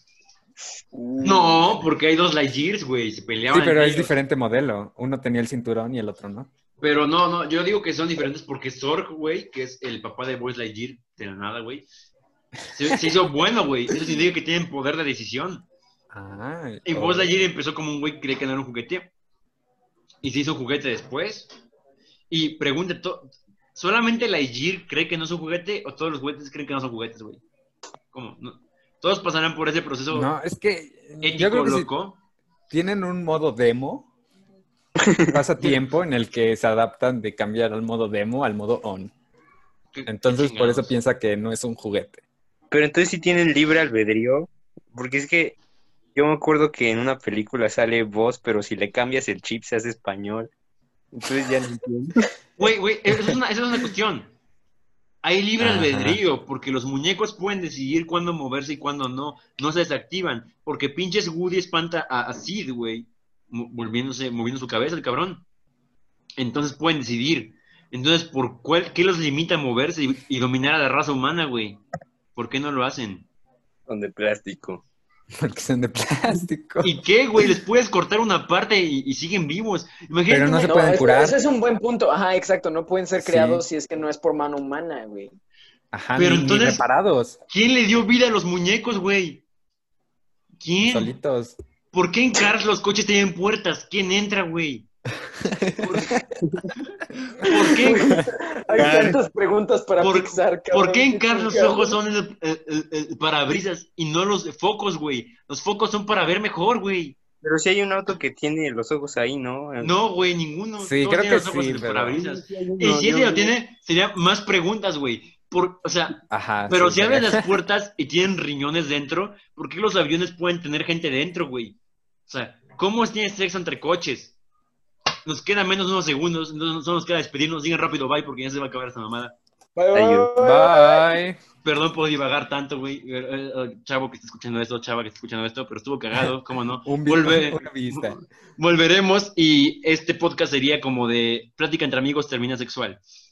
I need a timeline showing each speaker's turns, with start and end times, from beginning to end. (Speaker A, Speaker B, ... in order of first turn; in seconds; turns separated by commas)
Speaker A: 0.9-1.6, Speaker B: 1.2-4.1, Speaker C: 3.5-6.5, Speaker B: 6.8-11.8, Speaker B: 12.7-15.7, Speaker C: 16.1-17.3, Speaker B: 16.8-19.1, Speaker B: 20.2-21.5, Speaker B: 22.3-27.4, Speaker B: 28.1-30.3, Speaker C: 30.1-31.9, Speaker B: 31.2-32.2, Speaker C: 32.7-34.1, Speaker D: 35.0-35.4, Speaker C: 35.3-39.1, Speaker B: 39.9-40.9, Speaker C: 40.0-42.2, Speaker D: 42.7-45.6, Speaker D: 46.1-50.5, Speaker D: 51.1-52.2, Speaker B: 52.6-54.3, Speaker B: 55.2-65.4, Speaker C: 55.6-56.2, Speaker B: 66.4-71.8, Speaker B: 72.3-73.3, Speaker D: 73.9-74.8, Speaker C: 75.4-76.9, Speaker B: 76.8-80.8, Speaker C: 80.3-81.4, Speaker A: 80.6-85.3, Speaker C: 83.2-83.7, Speaker C: 85.9-87.4, Speaker B: 86.2-86.8, Speaker B: 87.5-89.4, Speaker B: 90.6-91.1, Speaker C: 90.8-91.5, Speaker B: 91.9-94.9, Speaker C: 95.4-96.4, Speaker B: 95.8-96.2, Speaker B: 97.4-98.1, Speaker A: 97.6-102.0, Speaker D: 98.7-99.2, Speaker B: 100.0-107.2, Speaker D: 107.4-109.9, Speaker B: 109.8-116.2, Speaker C: 110.8-112.2, Speaker D: 112.1-113.5, Speaker C: 116.3-117.5, Speaker B: 116.7-124.3, Speaker B: 125.2-129.3, Speaker A: 129.8-131.1, Speaker D: 129.9-130.3, Speaker C: 130.3-131.4, Speaker B: 131.6-143.0, Speaker C: 136.8-138.2